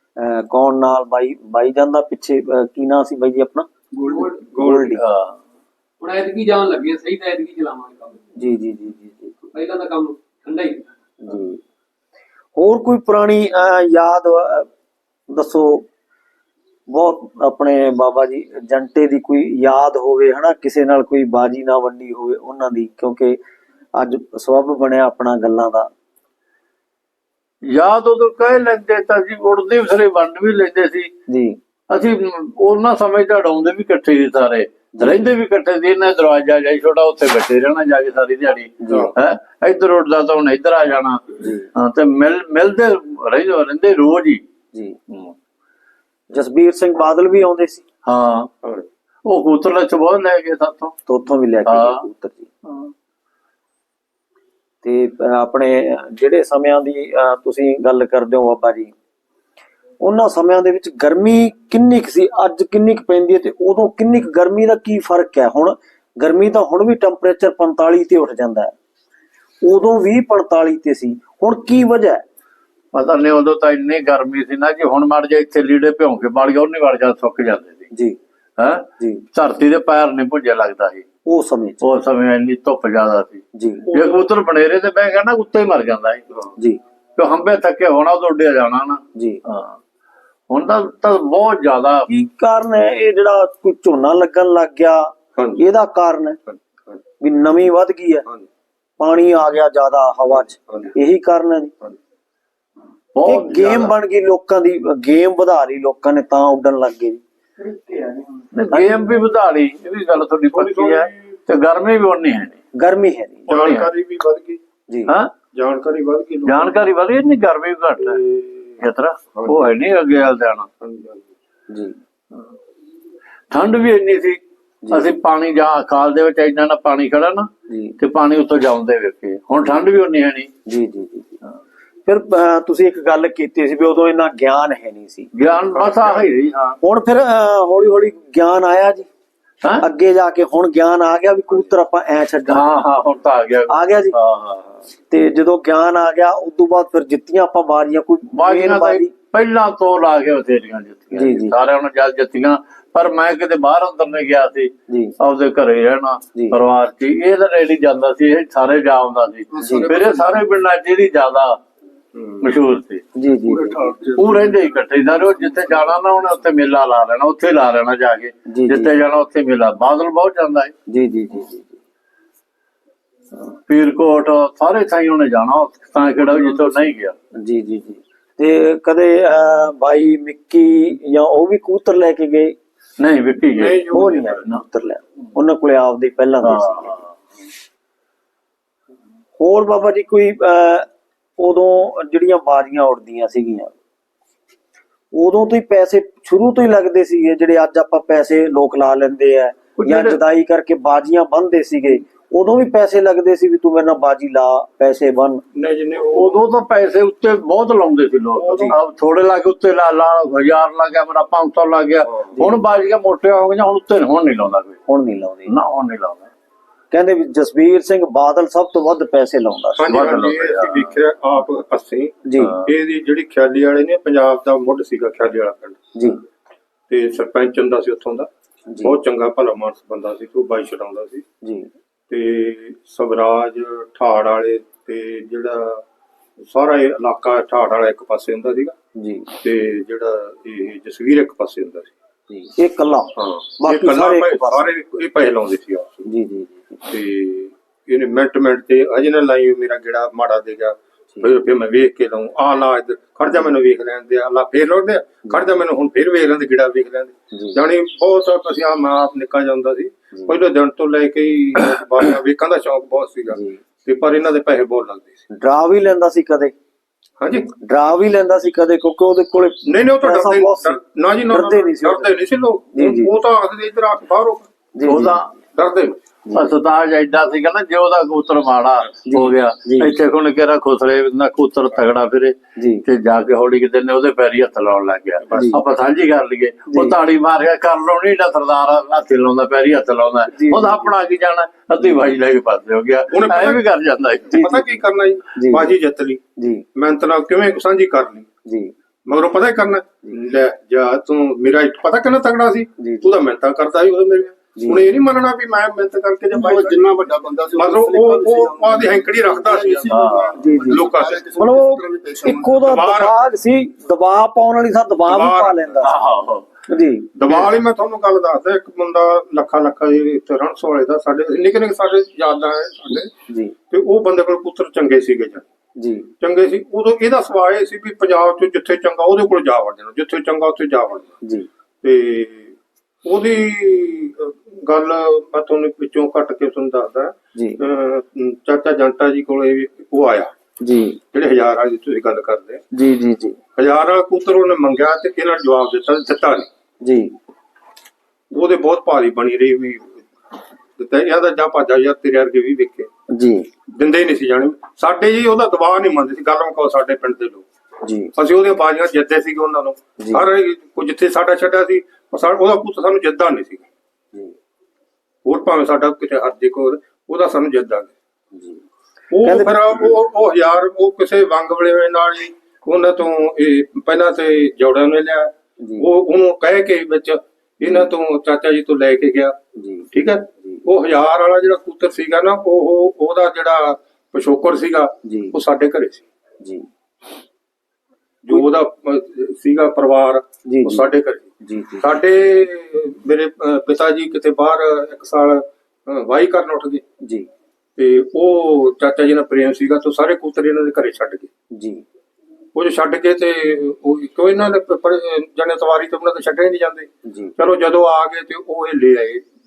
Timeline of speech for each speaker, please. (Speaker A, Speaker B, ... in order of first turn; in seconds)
Speaker A: 0.2-3.7, 4.5-5.0, 8.4-9.5, 11.2-11.6, 12.6-14.7, 15.3-15.9, 16.9-23.4, 23.9-25.9, 31.3-31.6, 35.0-35.2, 38.8-39.1, 41.4-41.7, 46.3-47.9, 51.1-52.5, 54.8-58.9, 60.0-68.7, 69.6-72.2, 77.9-78.2, 79.0-79.2, 81.3-81.8, 83.5-83.9, 89.1-89.4, 92.1-96.4, 97.2-98.3, 99.0-101.9, 103.2-109.0, 112.8-113.5, 114.9-115.1, 121.7-122.0, 124.8-125.1, 127.7-127.9, 130.7-131.4, 132.1-135.3, 136.8-139.1, 139.8-142.7, 143.7-144.2, 145.1-149.1, 151.1-151.6, 154.9-155.2, 159.6-159.9, 163.1-163.9, 168.5-168.9, 170.9-171.8, 177.3-182.6, 183.8-187.0, 189.4-190.9, 191.4-193.7, 195.1-205.4, 214.9-215.5, 216.9-219.9, 222.2-222.6, 225.9-226.2, 228.7-228.9, 231.4-231.7, 238.9-239.3, 242.3-244.7, 246.1-246.8, 257.3-257.6, 263.3-263.6, 265.3-266.5, 267.6-270.8, 271.3-272.1, 272.7-273.1, 274.8-275.2, 279.1-279.9, 282.6-282.8, 285.3-285.6, 290.3-290.9, 295.3-295.7, 296.4-296.6, 298.4-298.7, 302.8-303.1, 304.6-304.8, 310.4-316.0, 316.7-317.1, 323.3-323.6, 325.8-326.1, 331.2-331.5, 337.4-337.6, 340.6-341.0, 342.7-343.4, 346.8-347.1, 353.1-353.5, 357.8-358.1, 360.0-360.2, 368.3-368.6, 369.2-369.7, 375.6-375.9, 379.6-379.9, 385.1-385.3, 386.4-386.7, 390.4-390.9, 391.4-391.9, 397.0-397.3, 401.5-401.8, 407.1-407.3
Speaker B: 4.0-4.4, 6.0-8.2, 9.6-10.8
Speaker C: 4.5-4.9, 83.9-84.2, 95.4-95.6, 96.5-97.0, 110.5-111.2, 113.5-114.6, 115.5-116.9, 118.0-118.7, 119.3-119.7, 120.8-121.3, 135.7-136.3, 162.1-162.4, 183.6-184.4, 205.5-206.4, 208.3-208.8, 219.8-225.8, 226.9-228.3, 228.8-231.2, 232.1-235.8, 236.4-238.8, 239.4-241.9, 243.2-246.1, 246.9-265.2, 267.2-267.5, 269.6-274.4, 275.6-276.0, 293.1-293.6, 294.3-296.2, 296.8-298.3, 299.1-306.9, 307.6-311.4, 312.5-313.2, 315.1-315.8, 317.1-323.1, 323.7-325.4, 326.2-331.1, 331.8-340.3, 341.1-342.6, 343.6-346.5, 348.3-350.0, 350.8-352.9, 353.7-357.4, 358.1-363.6, 365.2-367.9, 369.1-379.4, 379.9-386.1, 388.2-391.3, 391.8-396.8, 397.8-401.3, 402.6-409.2
Speaker D: 5.0-5.4, 27.6-31.1, 31.9-44.4, 48.1-48.5, 49.3-50.9, 51.6-52.0, 72.9-77.9, 78.6-81.0, 81.8-86.2, 87.2-89.8, 90.5-92.1, 103.2-103.9, 108.5-112.6, 113.5-113.9, 116.5-118.2, 118.8-120.7, 123.5-124.4, 124.9-130.5, 135.3-136.8, 142.5-144.8, 148.3-161.6, 162.4-163.0, 164.2-170.7, 173.7-177.1, 183.0-184.6, 186.4-187.0, 199.8-200.2, 206.1-214.8, 215.5-216.3, 219.9-220.9, 274.9-275.3, 276.4-294.6, 309.9-310.3, 315.8-316.4
Speaker E: 159.5-160.4, 163.4-166.2, 306.3-312.6